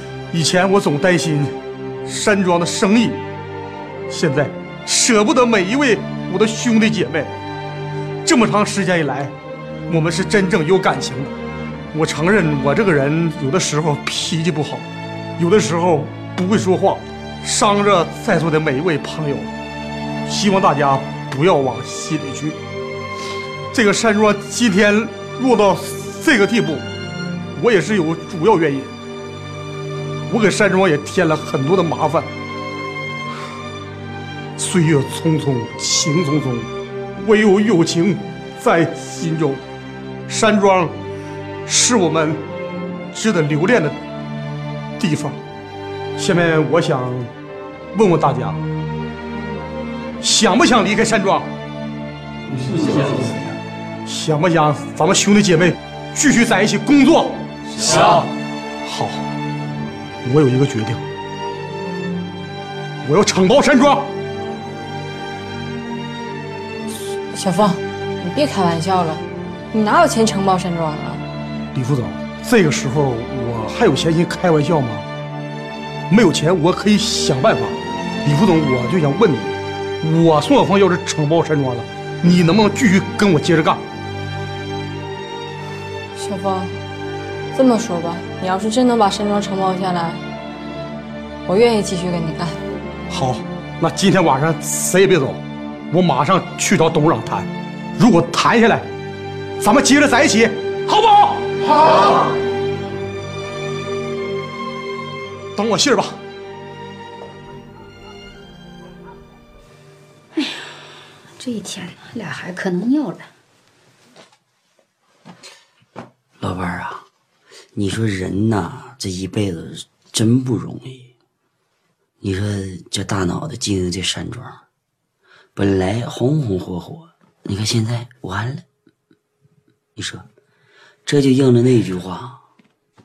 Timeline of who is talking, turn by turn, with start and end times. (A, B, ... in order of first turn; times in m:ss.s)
0:00.3-0:03.2 A
0:04.1-0:07.3 A
0:08.2-0:09.3 A
0:09.9-0:11.3 A
0:11.9-0:19.5 A
0:20.2-0:22.6 A
0:23.7-0:26.9 A
0:27.5-0:28.9 A
0:30.3-0:32.3 A
0:34.6-0:39.6 A
0:40.3-0:40.9 A
0:41.6-0:42.4 A
0:43.1-0:44.0 A
0:45.0-0:45.4 A
0:46.2-0:47.3 A
0:47.9-0:48.6 A
0:50.2-0:51.5 A
0:54.0-0:57.4 A
0:58.8-0:59.3 A
1:00.2-1:01.1 A
1:03.0-1:04.1 A
1:07.3-1:11.2 B
1:11.7-1:15.1 A
1:16.1-1:23.8 A
1:26.1-1:26.8 B
1:27.5-1:30.2 B
1:31.4-1:32.6 B
1:33.1-1:38.9 A
1:39.6-1:42.0 A
1:45.5-1:46.2 A
1:50.4-1:50.6 C
1:51.4-1:53.3 C
1:56.4-1:57.0 D
1:57.7-2:01.1 D
2:02.2-2:04.6 D
2:05.6-2:08.6 D
2:10.0-2:10.2 D
2:11.0-2:12.4 D